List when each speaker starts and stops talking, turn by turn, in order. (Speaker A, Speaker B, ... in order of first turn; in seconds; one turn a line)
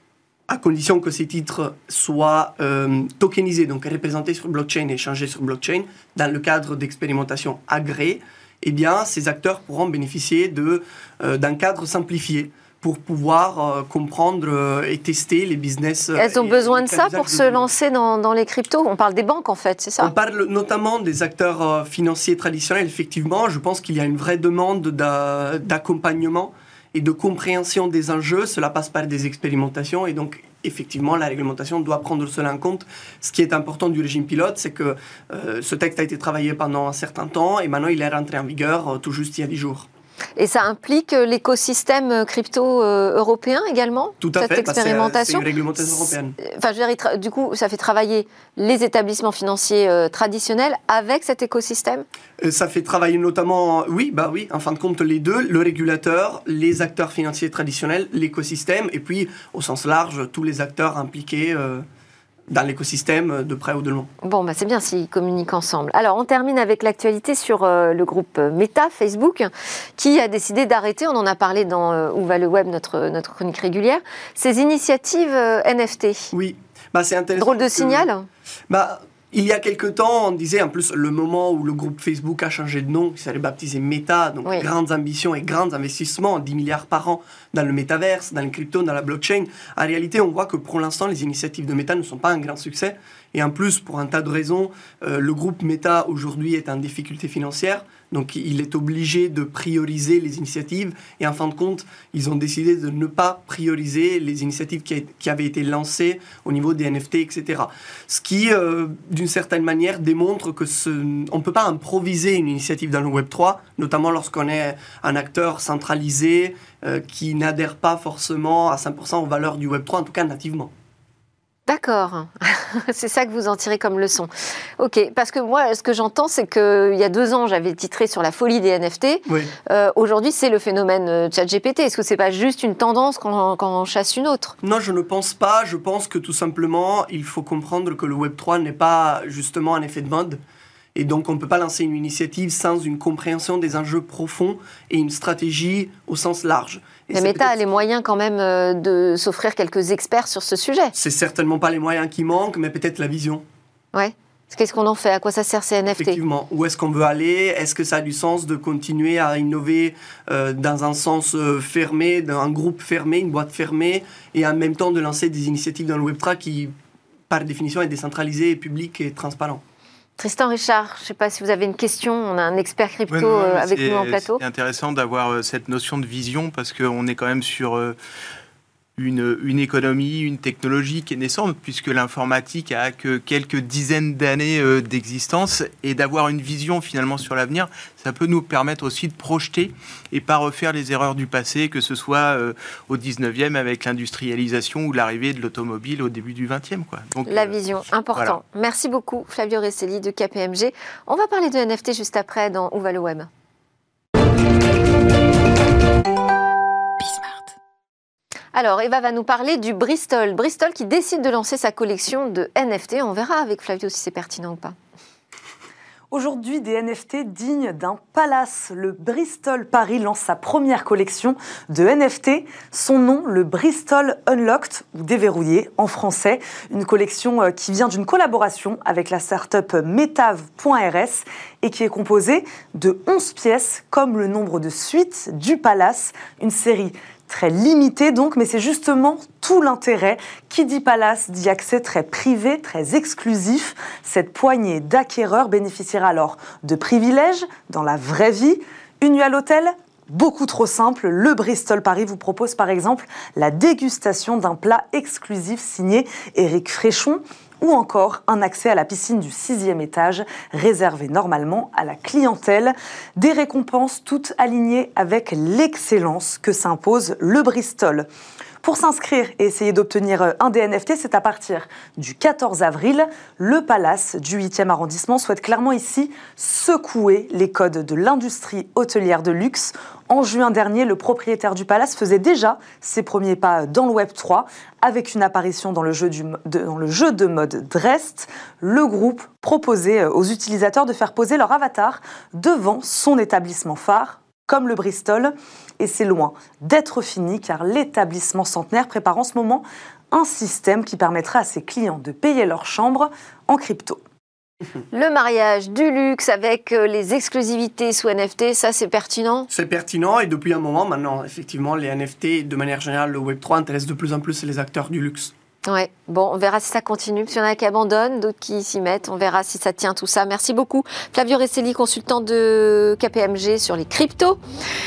Speaker A: 0.5-17.7
Speaker B: 16.2-20.1
Speaker A: 20.0-39.9
Speaker B: 40.4-45.5
Speaker A: 44.2-46.4
Speaker B: 46.0-52.0
Speaker A: 52.4-61.9
Speaker A: 62.5-64.1
Speaker B: 64.2-76.3
Speaker A: 76.3-78.1
Speaker B: 77.4-78.3
Speaker A: 78.7-120.7
Speaker B: 121.7-134.5
Speaker A: 134.6-140.4
Speaker A: 140.9-147.6
Speaker B: 147.1-150.9
Speaker A: 150.9-153.4
Speaker B: 153.9-156.2
Speaker A: 155.9-166.7
Speaker A: 167.3-169.6
Speaker B: 170.2-174.4
Speaker C: 173.1-178.0
Speaker C: 179.0-197.6
Speaker B: 197.3-203.3
Speaker B: 208.6-214.8
Speaker D: 216.1-268.1
Speaker D: 268.6-304.0
Speaker B: 304.9-309.5
Speaker A: 309.5-315.3
Speaker B: 315.6-324.4